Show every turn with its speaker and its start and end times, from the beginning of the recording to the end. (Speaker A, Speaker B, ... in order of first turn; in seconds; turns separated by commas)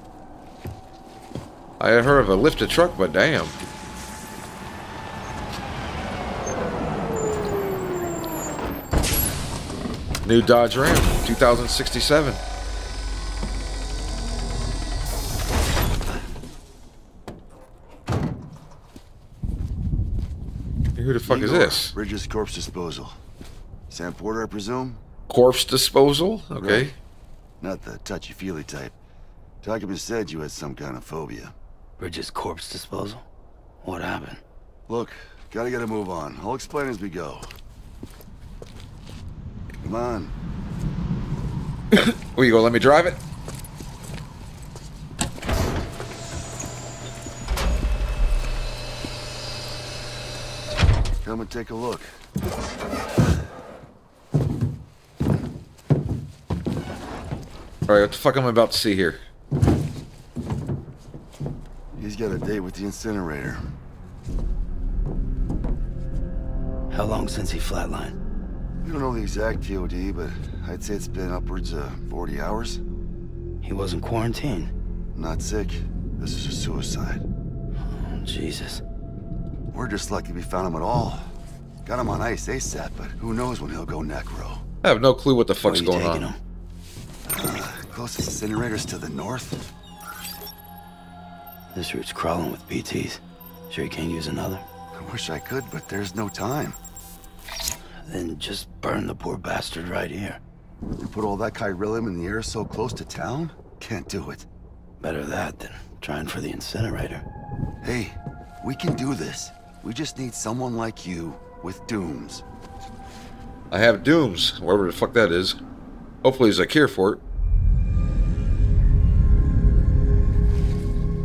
Speaker A: 1.8-3.5, Speaker A: 10.2-12.4, Speaker A: 21.0-21.9, Speaker B: 21.2-23.2, Speaker B: 23.9-25.0, Speaker A: 25.3-26.9, Speaker B: 26.6-26.9, Speaker B: 27.6-28.9, Speaker B: 29.6-31.5, Speaker C: 32.0-33.2, Speaker C: 33.8-34.4, Speaker B: 34.9-37.5, Speaker B: 39.8-40.3, Speaker A: 41.9-43.2, Speaker B: 51.2-52.1, Speaker A: 57.9-59.2, Speaker B: 62.0-63.6, Speaker C: 66.9-68.2, Speaker B: 68.8-72.8, Speaker C: 73.6-74.7, Speaker B: 75.1-77.2, Speaker C: 77.8-78.8, Speaker B: 79.7-81.3, Speaker B: 81.8-84.6, Speaker A: 84.8-86.3, Speaker C: 85.6-86.4, Speaker B: 87.2-89.6, Speaker C: 91.7-94.7, Speaker B: 94.9-96.8, Speaker C: 98.0-100.4, Speaker B: 101.0-104.5, Speaker C: 105.0-107.2, Speaker B: 107.8-112.4, Speaker A: 113.7-115.6, Speaker A: 116.2-117.2